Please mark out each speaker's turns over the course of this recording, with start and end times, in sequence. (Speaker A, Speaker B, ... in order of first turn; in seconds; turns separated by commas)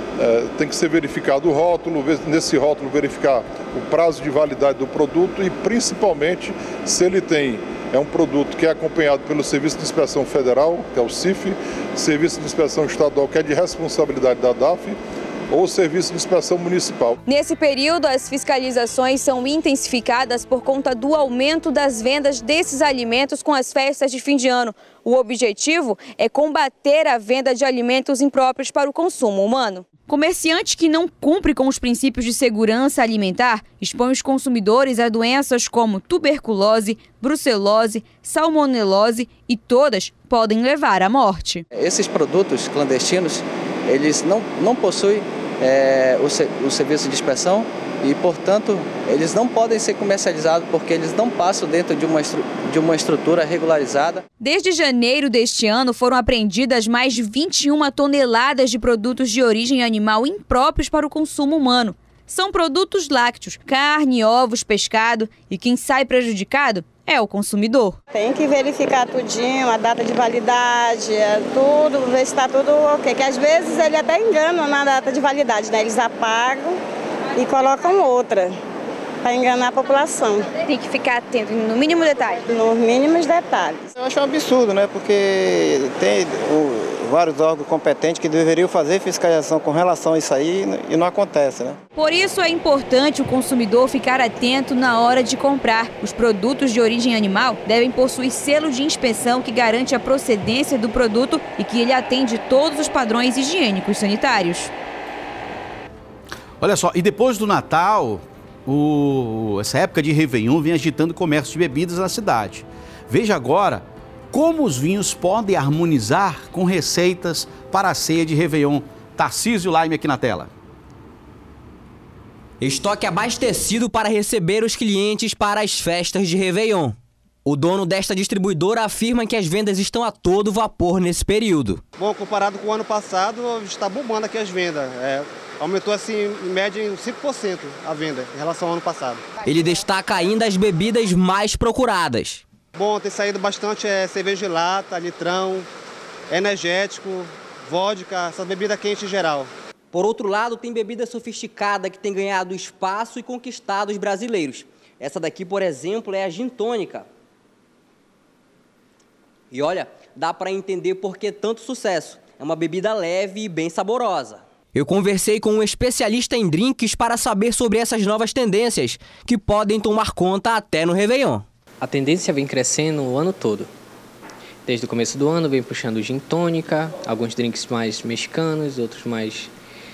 Speaker A: 0.2-14.9, Speaker A: 15.5-17.1, Speaker B: 17.3-41.6, Speaker C: 41.7-54.2, Speaker B: 54.4-68.0, Speaker D: 68.1-76.8, Speaker D: 77.4-78.6, Speaker D: 79.2-80.5, Speaker B: 80.6-82.4, Speaker D: 82.5-83.9, Speaker E: 84.0-91.8, Speaker B: 92.0-104.7, Speaker F: 106.6-120.5, Speaker G: 122.6-131.8, Speaker H: 132.0-139.2, Speaker E: 135.6-136.2, Speaker E: 138.1-138.8, Speaker G: 139.5-142.4, Speaker H: 142.8-145.6, Speaker H: 146.3-149.5, Speaker G: 149.9-157.1, Speaker G: 159.5-171.4, Speaker I: 171.8-173.7, Speaker I: 174.7-179.5